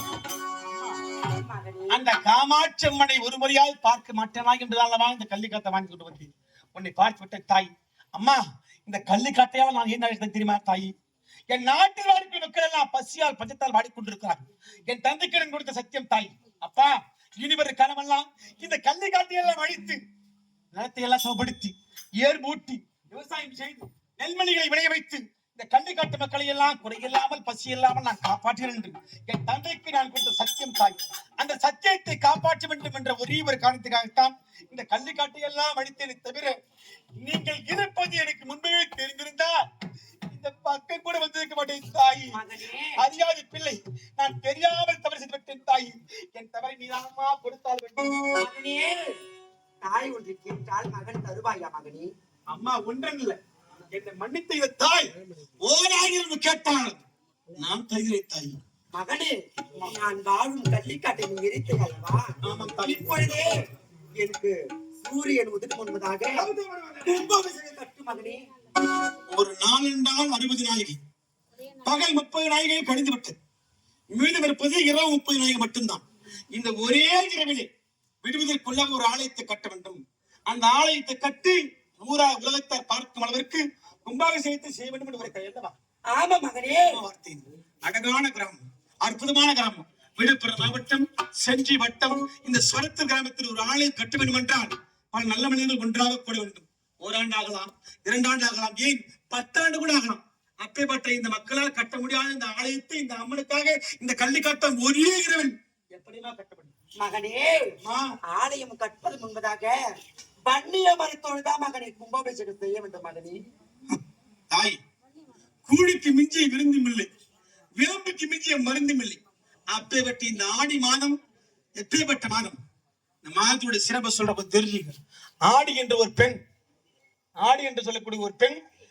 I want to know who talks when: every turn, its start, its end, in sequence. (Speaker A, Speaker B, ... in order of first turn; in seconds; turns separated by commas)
Speaker A: 1.0-2.0, Speaker B: 1.9-10.9, Speaker B: 11.5-20.0, Speaker B: 20.7-36.5, Speaker B: 37.2-39.5, Speaker B: 40.3-42.4, Speaker A: 42.3-43.0, Speaker B: 43.0-48.4, Speaker A: 48.4-49.0, Speaker A: 49.8-52.1, Speaker B: 52.5-53.4, Speaker B: 53.9-55.1, Speaker B: 55.6-57.0, Speaker B: 57.6-58.6, Speaker A: 58.9-63.5, Speaker B: 62.4-63.4, Speaker A: 64.2-66.5, Speaker B: 66.4-67.3, Speaker A: 67.0-68.4, Speaker B: 69.3-71.0, Speaker B: 71.8-73.4, Speaker B: 74.1-77.7, Speaker B: 78.2-85.7, Speaker A: 86.1-87.0, Speaker B: 86.8-106.7, Speaker A: 107.0-107.7, Speaker B: 107.8-108.1, Speaker A: 108.3-109.8, Speaker A: 110.5-113.4, Speaker B: 114.5-114.8, Speaker B: 115.7-117.1, Speaker B: 117.8-121.2, Speaker B: 121.8-122.6, Speaker B: 123.2-125.0, Speaker B: 125.5-126.4, Speaker B: 127.4-128.6